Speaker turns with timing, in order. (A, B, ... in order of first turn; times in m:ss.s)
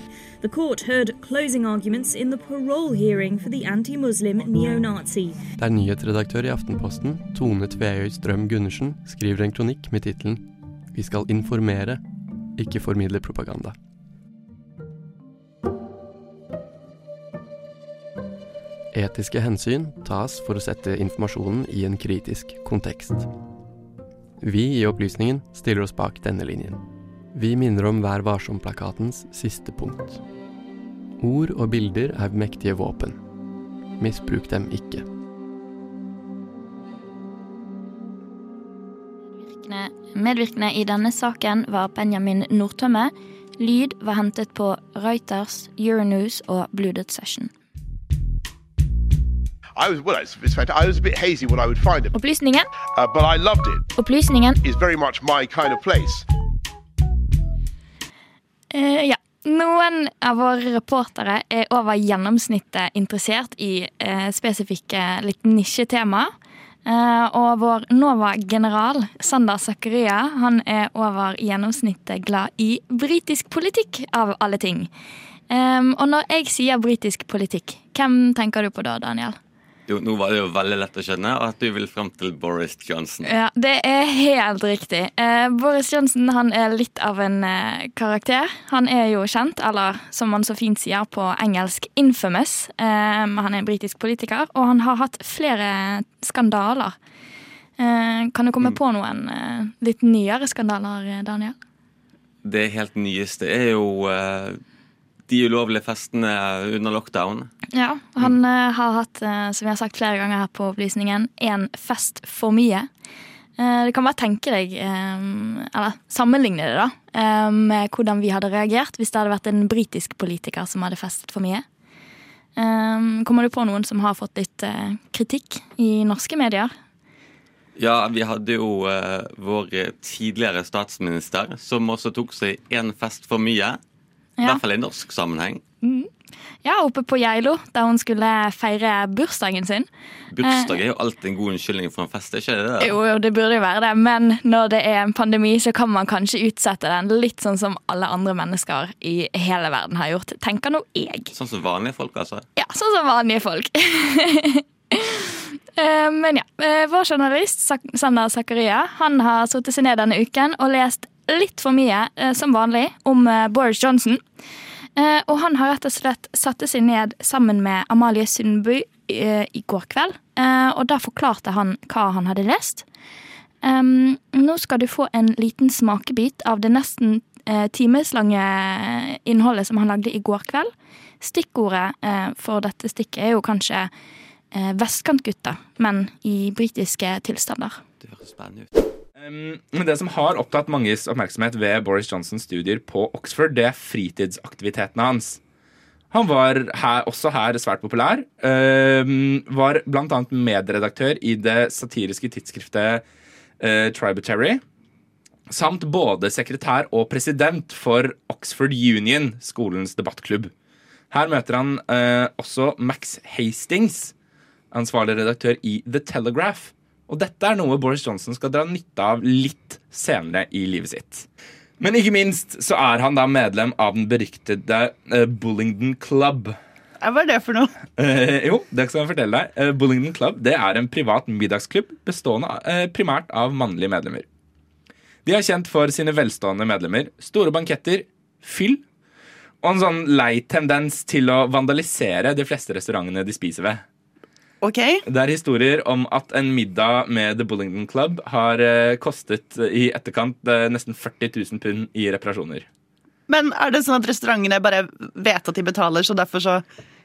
0:00.4-0:05.4 A
0:05.6-0:12.0 B
0:12.6-0:13.8 B
0:18.9-0:23.3 B
0:24.4-0:30.2 B
0:31.2-0:33.2 B
0:34.0-0:35.1 B
0:39.4-0:47.5 C
0:49.8-0:52.1 D
0:52.1-0:52.7 C
0:53.0-0:53.8 D
0:54.0-0:54.6 C
0:54.6-0:56.3 D
0:58.7-1:06.3 C
1:06.8-1:14.9 C
1:15.5-1:19.4 C
1:19.9-1:23.3 E
1:23.2-1:37.0 C
1:37.8-1:41.6 C
1:42.4-1:44.6 E
1:45.3-1:47.5 E
1:47.7-1:52.9 C
1:53.6-2:01.6 C
2:02.6-2:06.7 C
2:07.8-2:13.8 E
2:14.4-2:15.6 E
2:15.8-2:16.1 C
2:16.6-2:19.9 C
2:20.3-2:23.0 E
2:20.4-2:20.7 C
2:22.8-2:31.3 C
2:31.3-2:32.5 E
2:32.6-2:44.2 C
2:45.0-2:52.9 C
2:53.6-3:00.7 C
3:01.2-3:03.9 C
3:04.5-3:07.8 C
3:08.0-3:08.7 E
3:09.2-3:15.4 F
3:16.1-3:23.0 F
3:23.6-3:24.6 F
3:25.5-3:30.5 F
3:31.1-3:34.1 F
3:34.7-3:41.3 F
3:41.8-3:46.6 F
3:47.0-3:47.7 G
3:48.0-3:54.2 F
3:55.2-3:58.8 F
3:59.6-4:03.8 F
4:04.6-4:05.0 G
4:05.1-4:12.7 F
4:13.3-4:16.6 G